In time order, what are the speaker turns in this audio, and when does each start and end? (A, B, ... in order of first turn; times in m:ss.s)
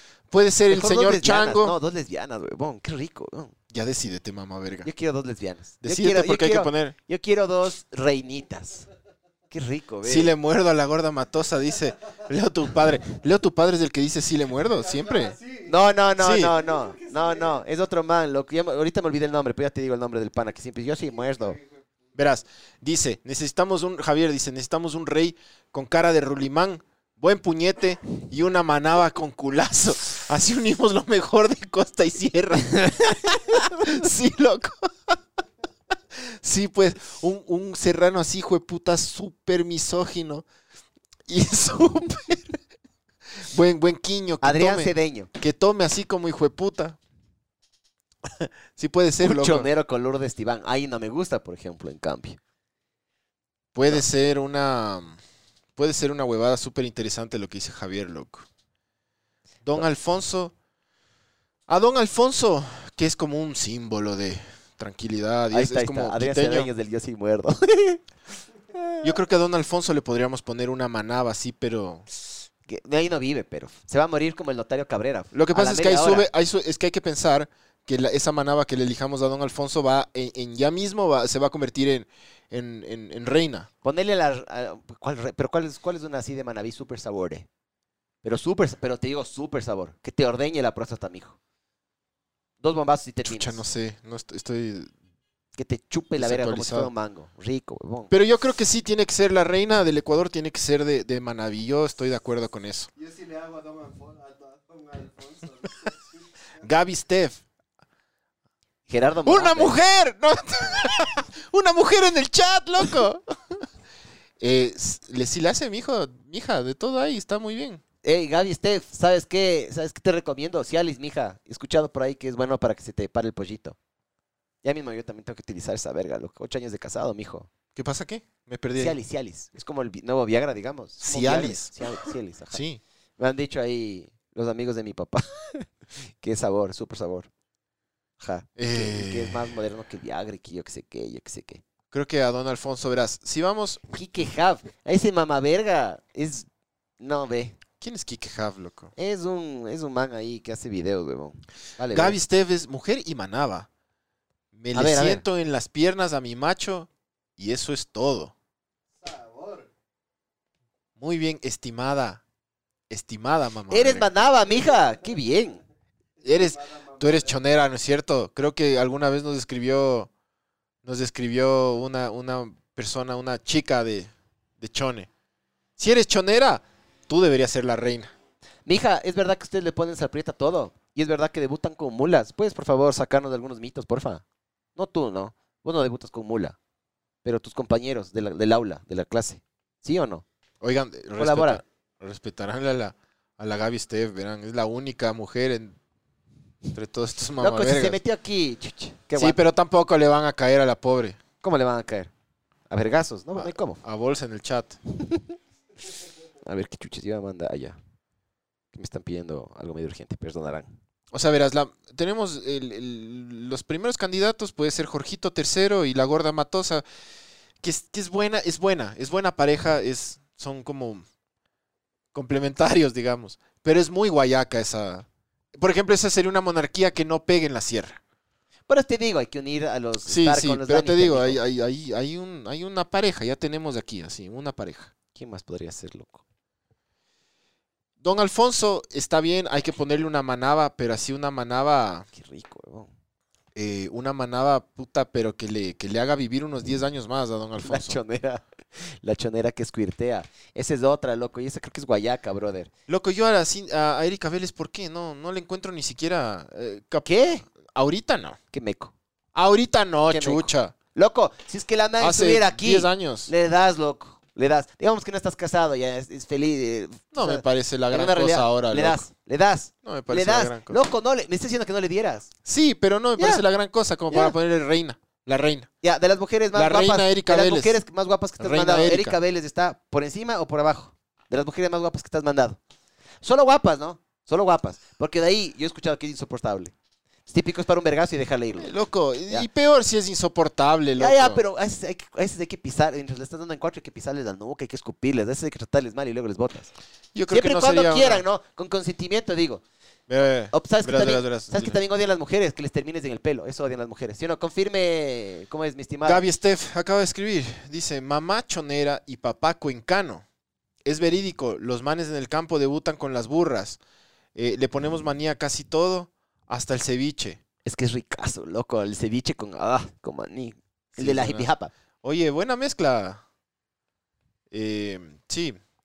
0:00.3-0:01.8 A
0:00.7-0:03.5 B
0:03.7-0:04.9 A
0:04.8-0:08.9 B
0:05.8-0:07.0 A
0:09.5-0:10.3 B
0:10.0-0:15.4 A
0:14.8-0:15.8 C
0:15.6-0:21.6 B
0:16.2-0:16.5 A
0:16.4-0:17.6 C
0:21.3-0:21.6 C
0:22.2-0:35.2 A
0:36.2-0:40.5 A
0:41.3-0:42.6 A
0:43.4-0:47.0 A
0:44.4-0:45.3 B
0:48.2-0:49.7 A
0:49.2-0:52.4 B
0:53.7-0:55.2 A
0:55.8-0:58.5 A
0:59.6-1:00.5 A
1:01.7-1:06.7 A
1:05.5-1:08.0 B
1:08.7-1:09.1 B
1:09.0-1:12.0 A
1:12.7-1:16.3 B
1:15.3-1:23.7 A
1:23.8-1:27.5 B
1:28.2-1:31.4 B
1:32.6-1:33.6 B
1:33.2-1:34.9 A
1:35.6-1:38.1 B
1:36.2-1:36.9 A
1:38.1-1:42.9 A
1:43.0-1:46.3 C
1:46.6-1:47.4 A
1:48.9-1:49.8 B
1:49.3-1:53.2 A
1:54.4-1:57.8 A
1:58.0-2:03.8 B
2:04.6-2:07.5 B
2:07.8-2:09.0 A
2:08.8-2:12.6 B
2:11.0-2:11.7 A
2:12.5-2:12.8 A
2:13.2-2:15.7 B
2:16.2-2:17.3 B
2:18.2-2:21.6 B
2:18.6-2:19.5 A
2:21.9-2:23.8 A
2:23.9-2:26.5 B
2:27.0-2:27.6 B
2:27.8-2:28.9 A
2:29.0-2:32.2 B
2:31.9-2:33.7 A
2:34.5-2:38.3 A
2:34.7-2:35.2 B
2:39.0-2:39.7 C
2:41.0-2:42.2 A
2:42.9-2:44.1 A
2:43.7-2:45.6 B
2:46.2-2:47.4 C
2:46.2-2:50.1 A
2:50.8-2:55.1 A
2:55.8-2:58.1 A
2:58.7-3:04.2 B
3:04.8-3:06.6 B
3:07.2-3:10.2 B
3:10.6-3:15.8 A
3:11.2-3:11.6 B
3:16.8-3:18.0 A
3:17.4-3:19.4 B
3:19.2-3:21.2 A
3:21.4-3:22.1 B
3:22.7-3:23.8 B
3:23.4-3:24.8 A
3:25.0-3:25.4 B
3:26.4-3:27.8 B
3:28.7-3:30.7 B
3:31.1-3:36.8 A
3:37.6-3:41.0 A
3:42.1-3:48.0 A
3:48.7-3:51.4 B
3:50.0-3:54.9 A
3:55.2-3:56.2 B
3:58.0-4:02.1 A
4:02.1-4:02.9 B
4:03.6-4:08.0 A
4:07.6-4:12.7 B
4:12.9-4:18.4 A
4:17.0-4:17.4 B
4:18.5-4:18.9 B
4:19.4-4:20.7 A
4:20.1-4:32.3 B
4:22.0-4:23.3 A
4:27.1-4:29.0 A
4:29.8-4:30.8 A
4:32.4-4:35.7 A
4:33.2-4:33.4 B
4:35.8-4:42.6 B
4:36.5-4:37.8 A
4:38.4-4:39.2 A
4:43.2-4:46.7 B
4:47.3-4:48.7 B
4:48.6-4:51.4 A
4:51.0-4:56.7 B
4:57.1-4:58.2 A
4:57.3-4:59.6 B
5:00.1-5:01.8 A
5:00.5-5:06.2 B
5:06.0-5:10.2 A
5:10.8-5:13.8 A
5:14.4-5:17.4 A
5:17.6-5:21.7 B
5:21.0-5:21.5 A
5:22.0-5:23.2 A
5:24.5-5:25.6 A